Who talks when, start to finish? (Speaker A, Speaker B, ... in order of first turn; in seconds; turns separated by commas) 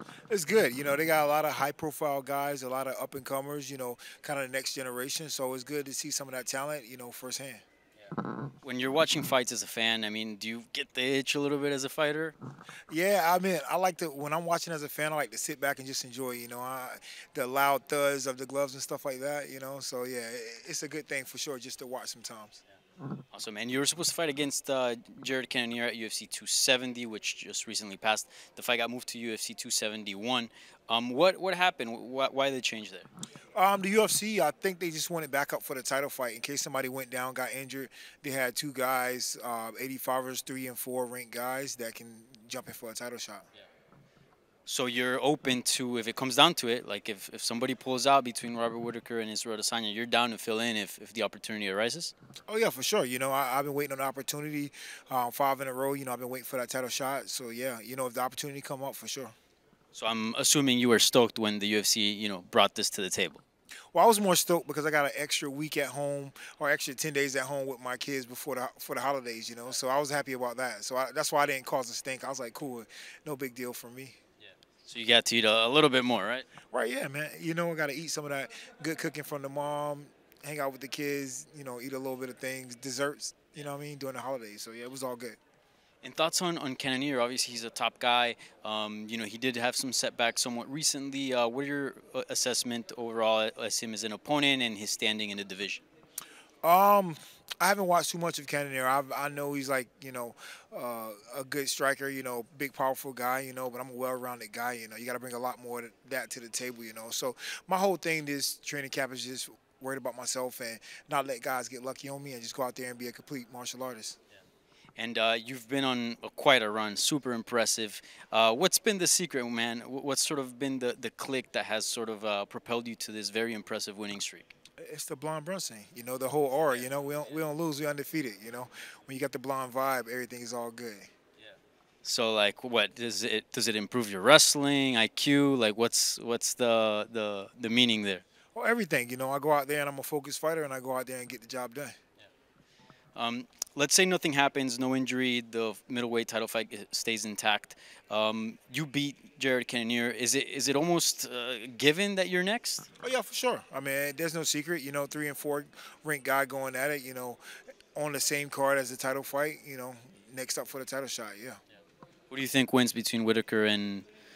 Speaker A: 0.3-7.6, Speaker B: 8.6-12.3, Speaker A: 12.9-22.6, Speaker B: 23.3-33.1, Speaker A: 33.5-43.5, Speaker B: 44.7-52.1, Speaker A: 52.5-59.4, Speaker B: 59.9-63.4, Speaker A: 63.9-74.2, Speaker B: 74.8-76.5, Speaker A: 76.7-85.4, Speaker B: 86.0-95.8, Speaker A: 96.6-114.2, Speaker B: 115.0-124.5, Speaker A: 124.8-131.1, Speaker B: 132.0-138.2, Speaker A: 138.6-142.0, Speaker B: 143.2-152.9, Speaker A: 153.0-157.4, Speaker A: 157.9-161.6, Speaker B: 162.3-164.1